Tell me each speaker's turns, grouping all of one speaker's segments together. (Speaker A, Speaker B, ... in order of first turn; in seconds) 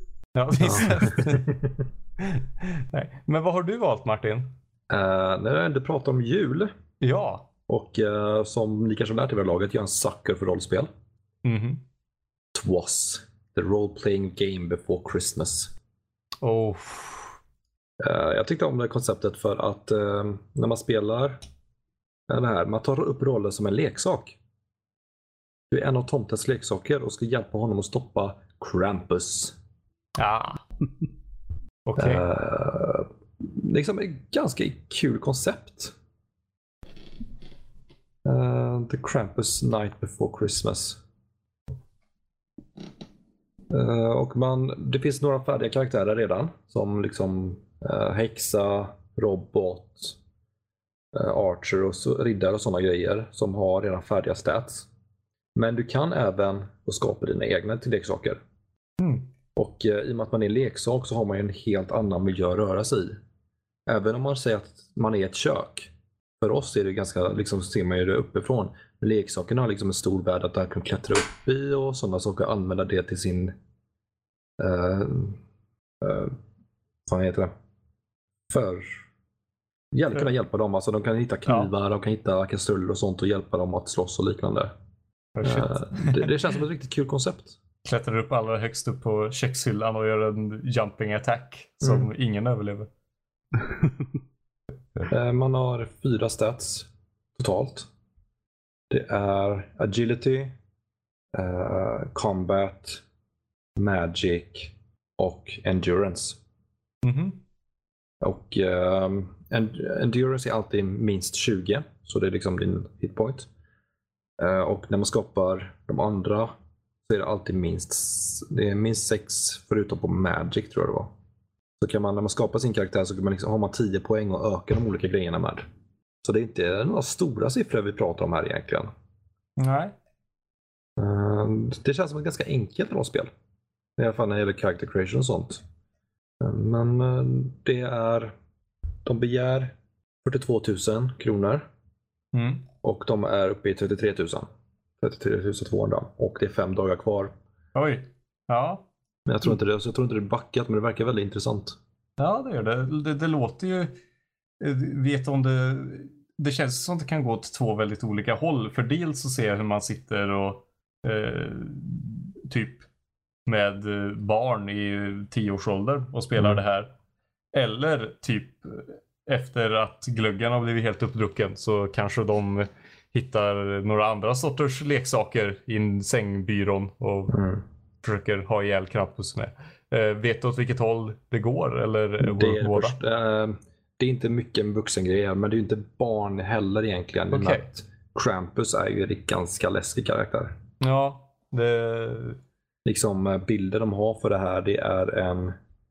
Speaker A: 0.3-1.5, 2.2-4.5, 7.0-7.5, 11.4-11.8, 16.4-17.4, 30.2-30.6, 31.9-32.2, 59.0-59.3, 85.4-86.4, 87.8-92.9, 107.0-107.4, 129.6-129.9, 142.3-142.7, 147.8-148.9, 152.2-153.9, 154.6-162.9, 163.5-166.9, 167.5-177.4, 178.0-183.0, 187.3-187.7, 190.8-192.4
Speaker B: 0.6-1.6, 4.9-6.7, 7.7-10.9, 12.5-15.7, 18.0-21.4, 22.3-24.4, 25.7-29.6, 32.0-36.0, 38.2-41.0, 43.7-50.2, 51.1-54.9, 55.6-58.4, 59.6-63.2, 63.9-73.5, 74.6-75.4, 76.0-76.4, 77.1-77.5, 78.5-79.0, 79.9-84.7, 85.4-87.6, 91.8-92.1, 95.1-97.9, 98.9-100.5, 101.3-103.0, 103.8-106.4, 108.2-113.5, 114.4-116.5, 117.1-121.1, 121.8-125.7, 126.2-128.9, 131.0-133.3, 134.0-135.6, 136.4-138.3, 139.1-141.7, 142.8-144.5, 145.0-147.3, 149.3-151.8, 177.3-177.6, 182.2-190.6, 192.8-195.6